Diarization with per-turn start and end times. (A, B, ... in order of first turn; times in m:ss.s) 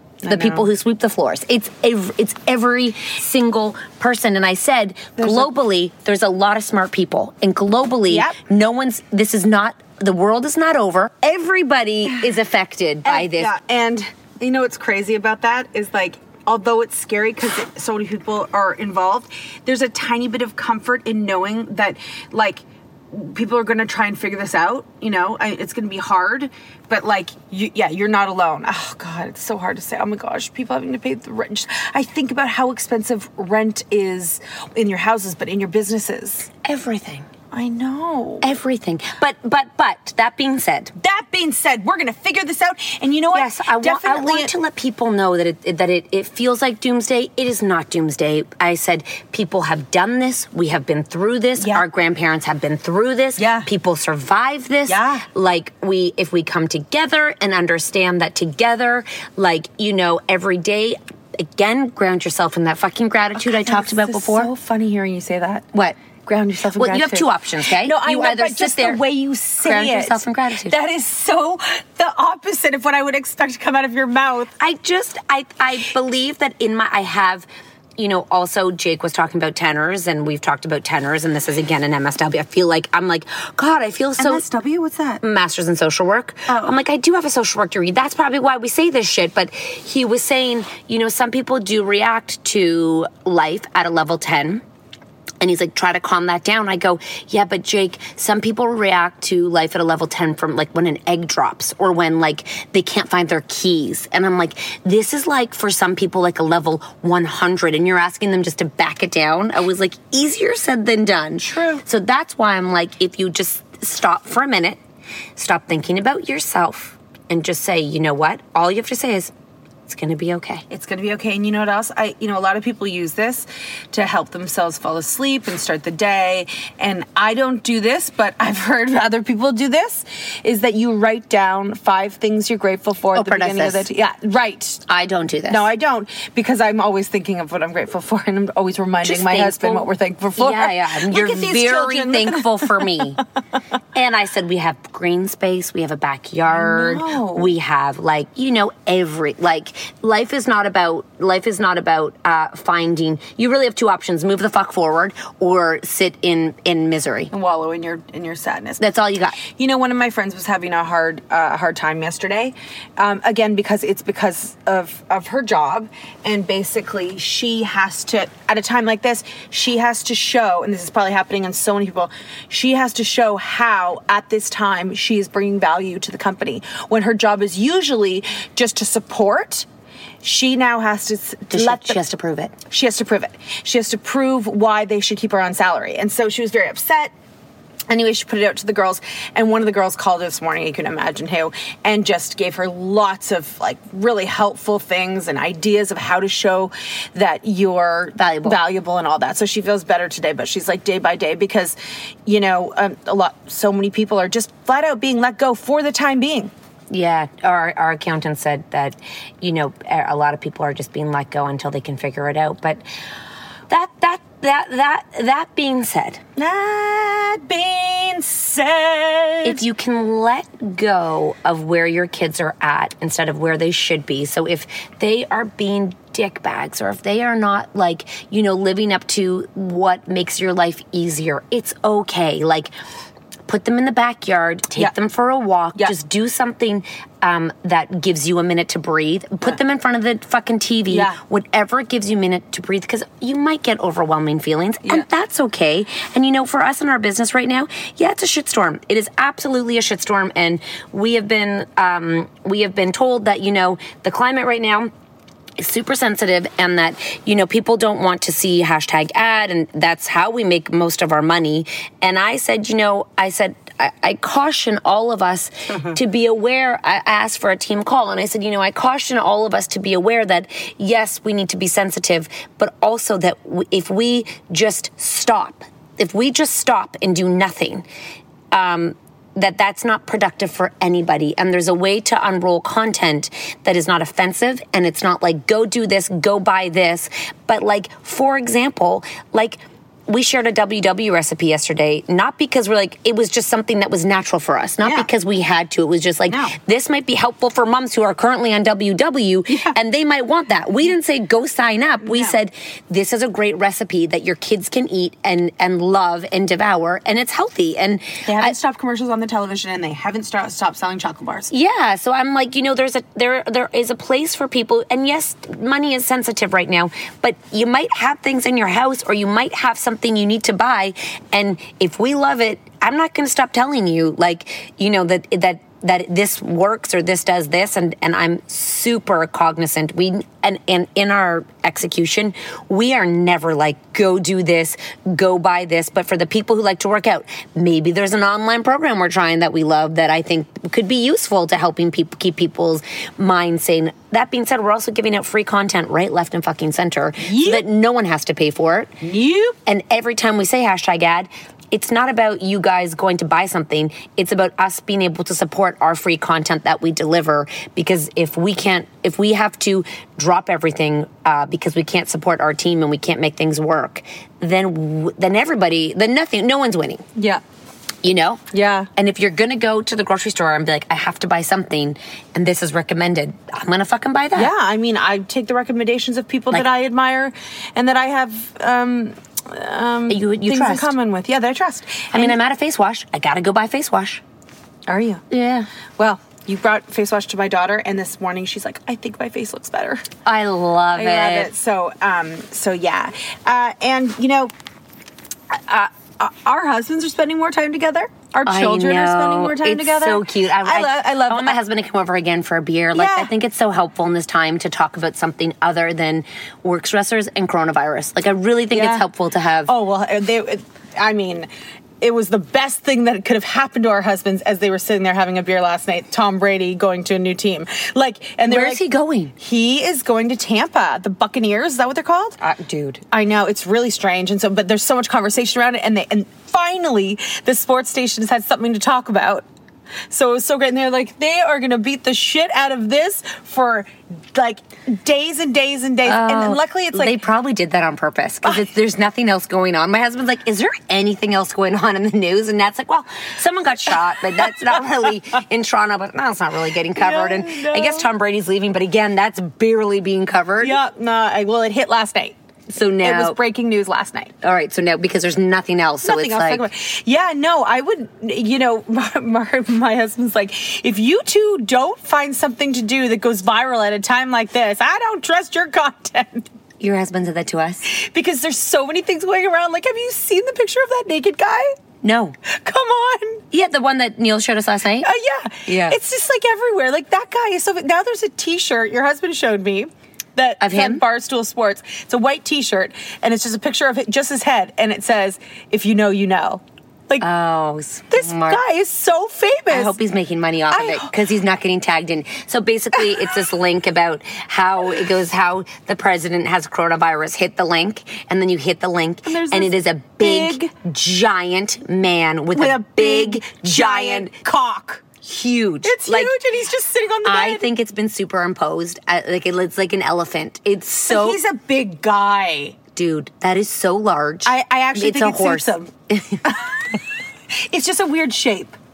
0:00.2-0:00.7 A
0:00.3-0:13.5 B
0:05.2-0:05.5 A
0:08.1-0:08.3 A
0:13.0-0:36.5 A
0:36.6-0:37.3 B
0:37.5-0:38.4 A
0:38.4-0:40.9 B
0:41.0-0:44.5 A
0:43.3-1:04.5 B
0:51.6-0:51.8 A
0:53.4-0:53.7 A
0:54.9-0:55.2 A
1:03.4-1:05.7 A
1:06.2-1:14.5 A
1:06.8-1:09.0 B
1:09.6-1:10.8 B
1:14.6-1:17.5 B
1:18.0-1:24.4 B
1:24.2-1:25.2 A
1:25.2-1:34.6 B
1:26.5-1:26.7 A
1:35.4-1:54.8 B
1:51.4-1:51.8 A
1:55.4-1:59.3 B
1:59.9-2:00.6 B
2:00.7-2:14.8 A
2:13.1-2:13.9 B
2:14.9-2:15.7 B
2:15.5-2:23.0 A
2:19.0-2:23.2 B
2:23.9-2:37.3 B
2:26.5-2:27.5 A
2:37.3-2:38.8 A
2:38.8-2:39.4 B
2:39.4-2:59.7 A
3:00.2-3:02.0 A
3:01.5-3:02.5 B
3:02.7-3:07.1 A
3:07.9-3:26.5 A
3:18.2-3:18.6 B
3:26.9-3:32.8 B
3:33.7-3:36.2 B
3:36.4-3:39.6 A
3:39.4-3:52.7 B
3:53.5-4:14.9 B
4:00.9-4:01.2 A
4:15.6-4:37.8 B
4:38.5-5:08.5 B
4:56.3-4:56.5 A
4:59.5-4:59.8 A
5:02.0-5:02.4 A
5:08.2-5:11.5 A
5:11.5-5:48.9 B
5:47.2-5:47.6 A
5:49.0-5:49.6 A
5:49.6-6:07.0 B
6:07.2-6:07.4 A
6:08.0-6:08.4 B
6:08.5-6:08.9 A
6:09.0-6:14.5 B
6:14.3-6:22.4 A
6:20.1-6:20.9 B
6:22.1-6:24.2 B
6:24.9-6:25.2 A
6:25.3-6:25.7 B
6:26.0-6:30.0 A
6:30.2-6:31.5 B
6:30.9-6:34.5 A
6:35.5-6:41.6 A
6:38.4-6:49.7 B
6:42.9-6:43.3 A
6:48.7-6:49.0 A
6:49.7-6:51.5 A
6:52.0-6:58.8 A
6:58.4-6:59.3 B
6:59.4-7:02.4 A
7:02.4-7:03.0 B
7:03.1-7:09.4 A
7:10.1-7:17.2 A
7:16.0-7:30.8 B
7:27.0-7:28.1 A
7:30.6-7:32.4 A
7:32.7-7:33.4 B
7:33.0-7:34.3 A
7:34.4-7:36.6 B
7:36.0-7:46.5 A
7:46.8-7:47.8 B
7:47.9-7:51.7 A
7:52.0-7:52.4 B
7:52.6-7:53.4 A
7:53.5-7:55.1 B
7:55.0-8:07.2 A
7:55.6-7:56.0 B
8:00.6-8:01.0 B
8:07.2-8:08.6 B
8:08.1-8:10.0 A
8:09.7-8:24.3 B
8:10.7-8:11.1 A
8:19.2-8:20.7 A
8:22.5-8:25.0 A
8:25.2-8:26.3 B
8:25.8-8:27.7 A
8:27.2-8:31.4 B
8:31.0-8:32.8 A
8:33.0-8:36.4 B
8:34.4-8:35.9 A
8:36.4-8:36.8 A
8:37.7-8:38.7 A